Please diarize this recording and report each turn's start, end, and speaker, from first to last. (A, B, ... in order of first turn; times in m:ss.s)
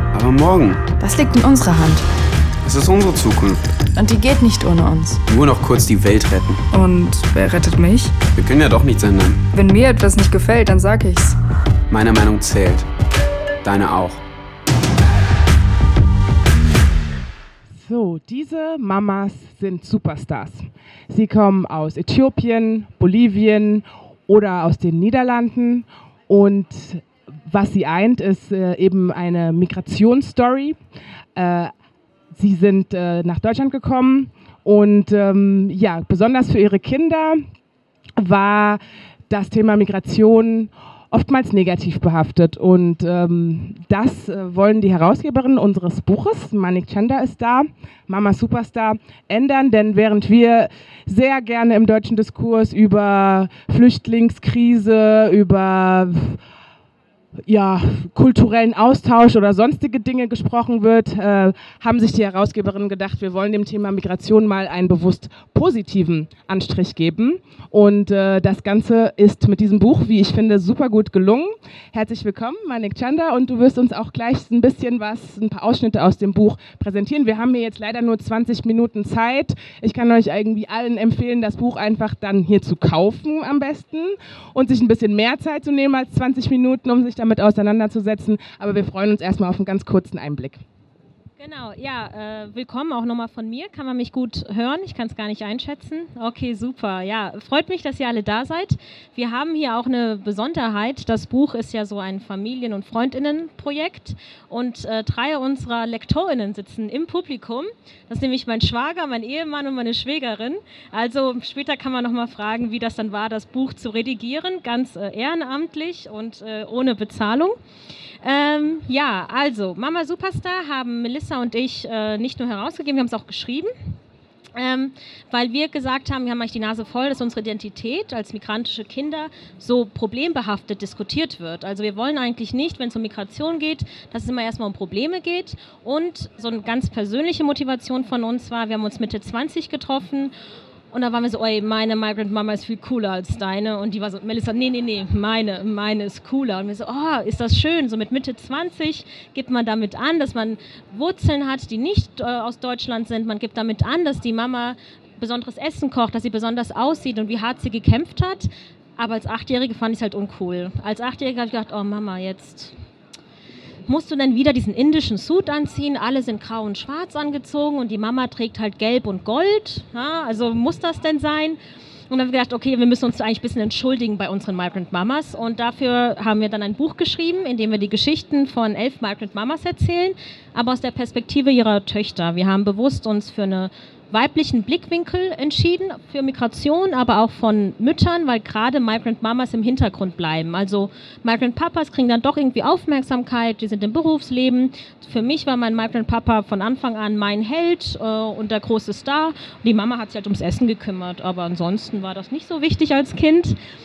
0:00.1-0:00.9 A
0:01.0-0:02.1 B
0:02.6-0:03.6 A
0:04.0-0:05.2 B
0:05.3-0:06.6 A
0:06.7-0:08.2 B
0:08.3-0:09.4 A
0:09.5-0:11.4 B
0:11.9-0:12.9 A
0:13.6-0:14.2 A
0:17.8-0:30.8 C
0:31.4-0:31.7 C
0:32.3-0:37.4 C
0:38.2-0:56.4 C
0:57.5-1:30.6 C
1:31.4-1:57.6 D
1:58.2-2:03.7 D
2:04.6-2:20.3 D
2:20.9-2:42.7 D
2:43.9-2:51.6 D
2:52.1-3:23.6 D